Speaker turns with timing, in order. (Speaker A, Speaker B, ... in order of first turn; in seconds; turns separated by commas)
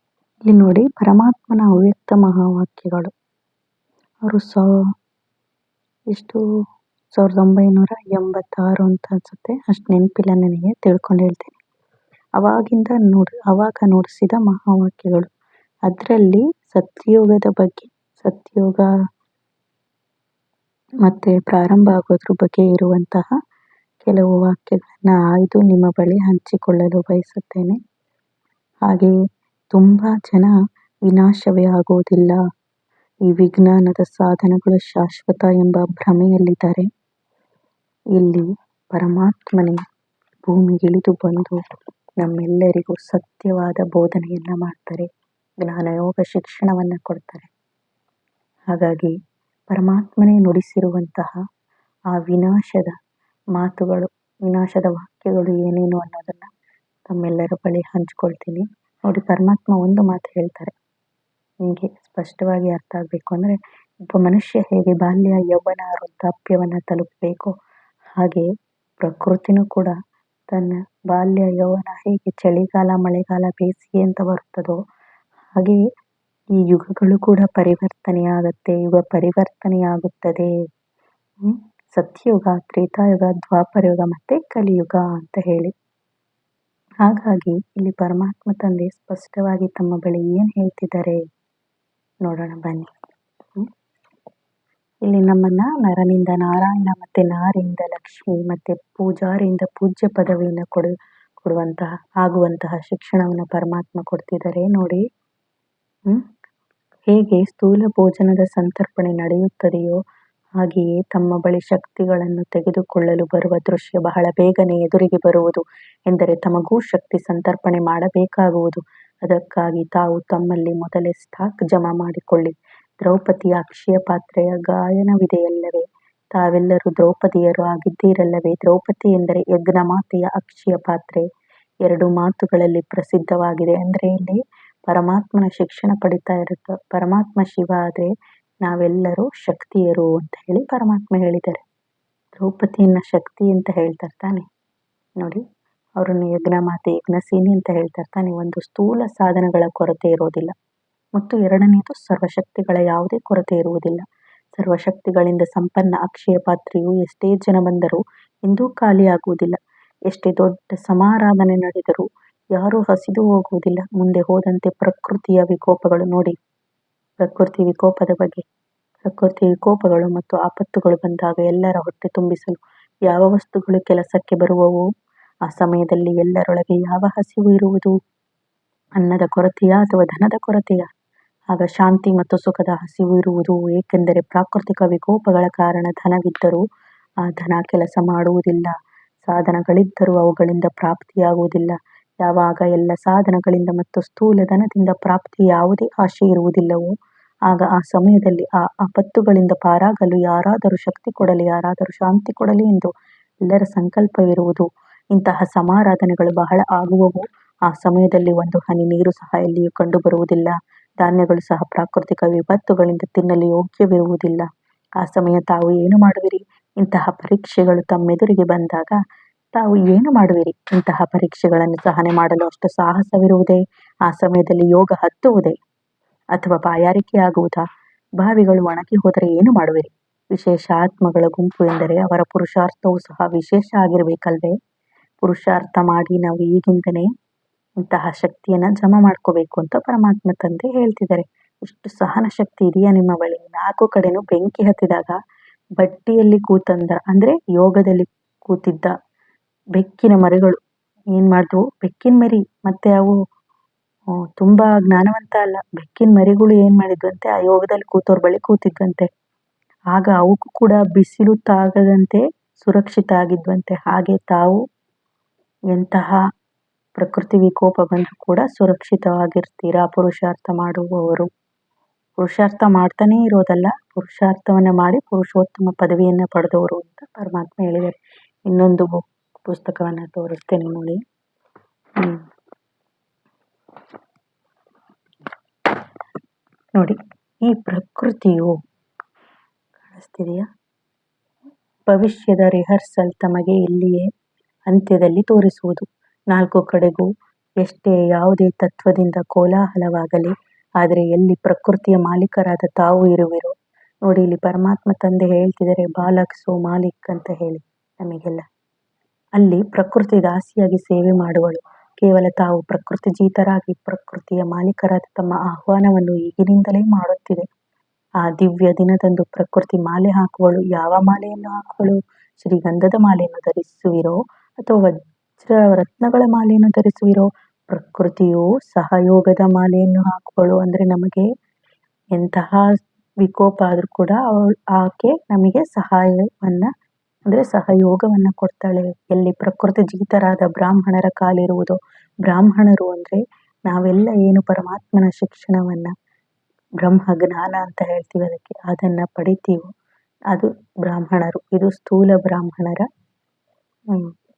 Speaker A: 0.5-3.1, Speaker A: 4.3-4.7, Speaker A: 6.1-6.4, Speaker A: 7.1-11.6, Speaker A: 12.4-15.3, Speaker A: 15.9-18.9, Speaker A: 21.0-23.3, Speaker A: 24.0-27.8, Speaker A: 28.9-29.1, Speaker A: 29.7-30.5, Speaker A: 31.1-32.4, Speaker A: 33.3-36.9, Speaker A: 38.1-39.8, Speaker A: 40.5-41.6, Speaker A: 42.2-45.1, Speaker A: 45.6-47.5, Speaker A: 48.7-49.1, Speaker A: 49.7-51.3, Speaker A: 52.1-53.0, Speaker A: 53.5-56.5, Speaker A: 57.1-60.7, Speaker A: 61.6-63.6, Speaker A: 64.1-67.5, Speaker A: 68.2-68.5, Speaker A: 69.0-70.0, Speaker A: 70.5-74.8, Speaker A: 75.5-75.8, Speaker A: 76.6-80.5, Speaker A: 81.4-85.7, Speaker A: 87.0-91.2, Speaker A: 92.2-92.9, Speaker A: 95.0-105.0, Speaker A: 107.1-110.0, Speaker A: 110.6-131.2, Speaker A: 131.8-138.1, Speaker A: 138.6-141.6, Speaker A: 142.4-144.4, Speaker A: 146.0-150.5, Speaker A: 151.2-154.0, Speaker A: 154.6-159.6, Speaker A: 160.1-166.3, Speaker A: 167.2-168.4, Speaker A: 169.0-174.8, Speaker A: 175.5-177.9, Speaker A: 179.0-180.9, Speaker A: 181.5-186.6, Speaker A: 187.2-196.9, Speaker A: 197.5-202.9, Speaker A: 203.4-214.5, Speaker A: 215.0-219.0, Speaker A: 219.5-225.6, Speaker A: 226.3-227.6, Speaker A: 228.2-234.6, Speaker A: 235.2-237.1, Speaker A: 237.8-245.2, Speaker A: 245.8-248.9, Speaker A: 249.8-250.6, Speaker A: 251.1-253.2, Speaker A: 254.4-259.1, Speaker A: 259.9-264.6, Speaker A: 265.7-266.2, Speaker A: 267.0-271.3, Speaker A: 272.2-281.0, Speaker A: 286.8-288.6, Speaker A: 289.9-290.4, Speaker A: 291.9-294.1, Speaker A: 294.7-297.1, Speaker A: 297.6-303.5, Speaker A: 304.1-308.4, Speaker A: 309.4-317.5, Speaker A: 318.2-331.3, Speaker A: 332.1-332.7, Speaker A: 333.2-336.7, Speaker A: 337.3-345.9, Speaker A: 346.8-349.7, Speaker A: 350.3-352.9